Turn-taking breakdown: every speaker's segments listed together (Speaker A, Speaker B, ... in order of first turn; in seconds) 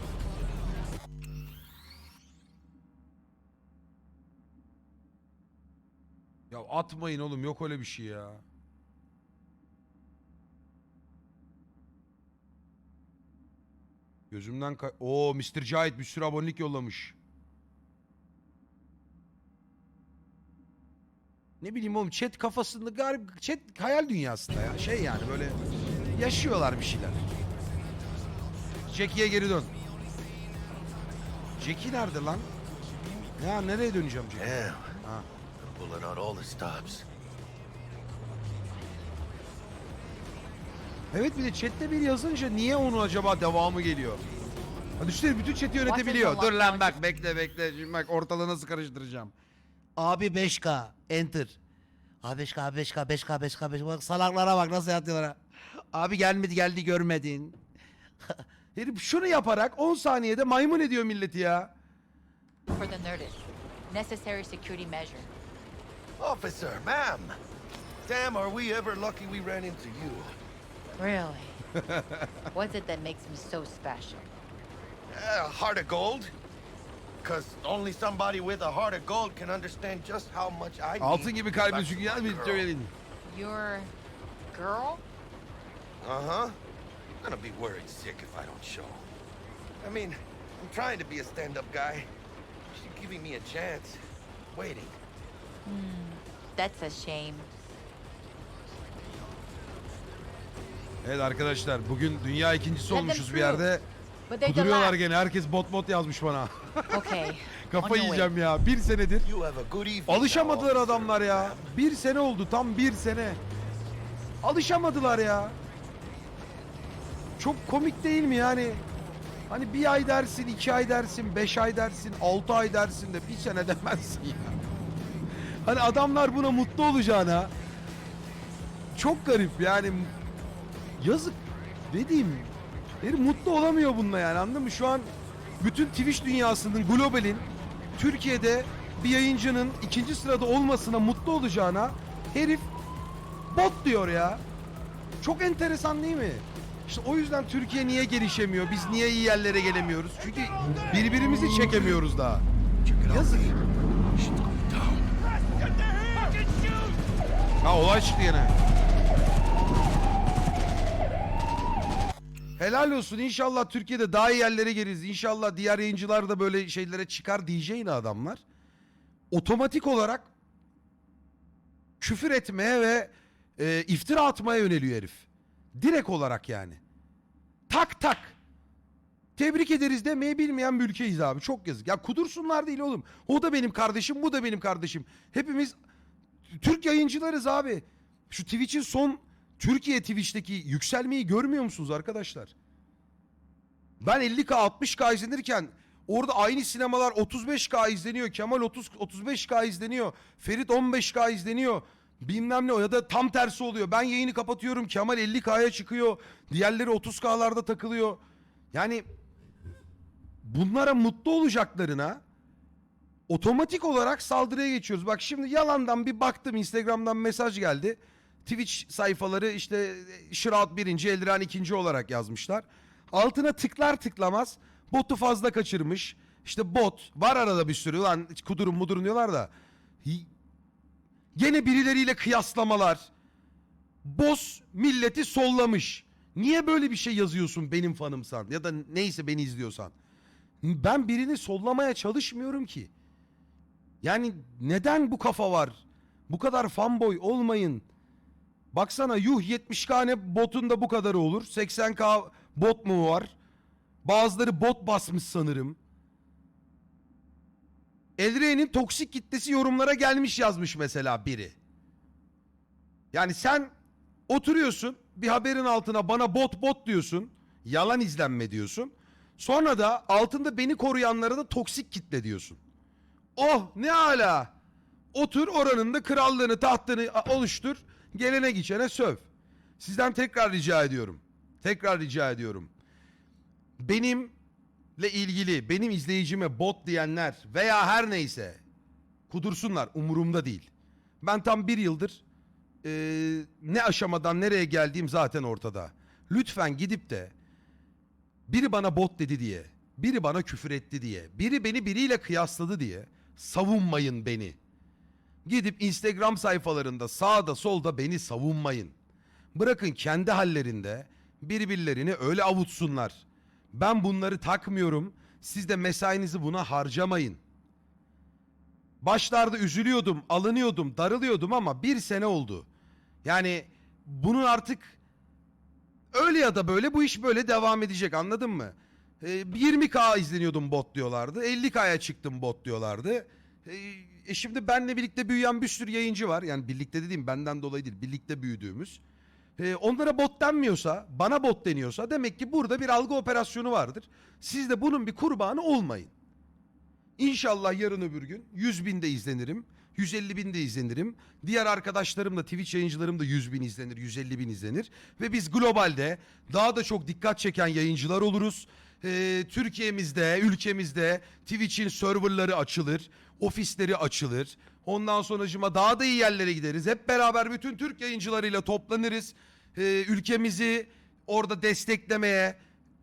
Speaker A: 6.5-8.4, 14.3-17.2, 21.6-25.6, 26.1-27.2, 28.9-29.7, 31.6-32.5, 33.4-35.3, 41.1-44.2, 45.0-49.3, 50.0-51.6, 52.2-55.4, 55.9-57.6, 58.8-61.7, 71.8-72.3, 81.0-82.9, 101.0-103.8, 104.5-109.3, 110.1-113.4, 114.4-115.6, 117.4-118.8, 119.5-124.6, 125.6-127.5, 128.9-130.1, 131.0-137.5, 138.0-142.7, 143.5-144.4, 145.2-152.4, 153.1-153.5, 157.6-158.6, 162.6-168.4, 169.3-170.3, 172.0-175.3, 175.8-176.8, 177.7-178.4, 179.4-185.8, 186.5-192.5, 194.0-208.2, 208.7-209.0, 210.4-212.2, 213.3-229.5, 231.3-233.0, 234.0-239.9, 240.6-242.9, 244.0-247.8, 248.7-253.3, 254.0-255.8, 258.2-261.6, 263.1-263.7, 264.3-272.6, 273.4-274.5, 275.1-279.2, 279.8-282.7, 283.8-284.3, 285.0-288.6, 289.3-290.7, 291.2-292.2, 292.8-297.3, 298.5-304.6, 305.4-308.9, 309.6-317.4, 319.0-322.7, 323.2-325.0, 326.1-339.0, 339.6-346.1, 347.2-372.6
Speaker B: 34.4-34.9, 35.7-37.1, 66.2-67.4, 68.0-70.4, 75.1-76.3, 77.2-82.7, 86.0-86.6, 87.2-89.1, 89.8-92.1, 92.7-94.0, 94.5-95.0, 109.2-111.7, 152.8-153.6, 154.2-155.1, 156.2-156.7
Speaker C: 45.8-47.0, 62.7-65.3, 71.0-71.6, 72.5-74.3, 83.3-83.9, 84.5-85.0, 95.7-97.5, 102.9-103.7, 104.3-105.0, 106.9-108.3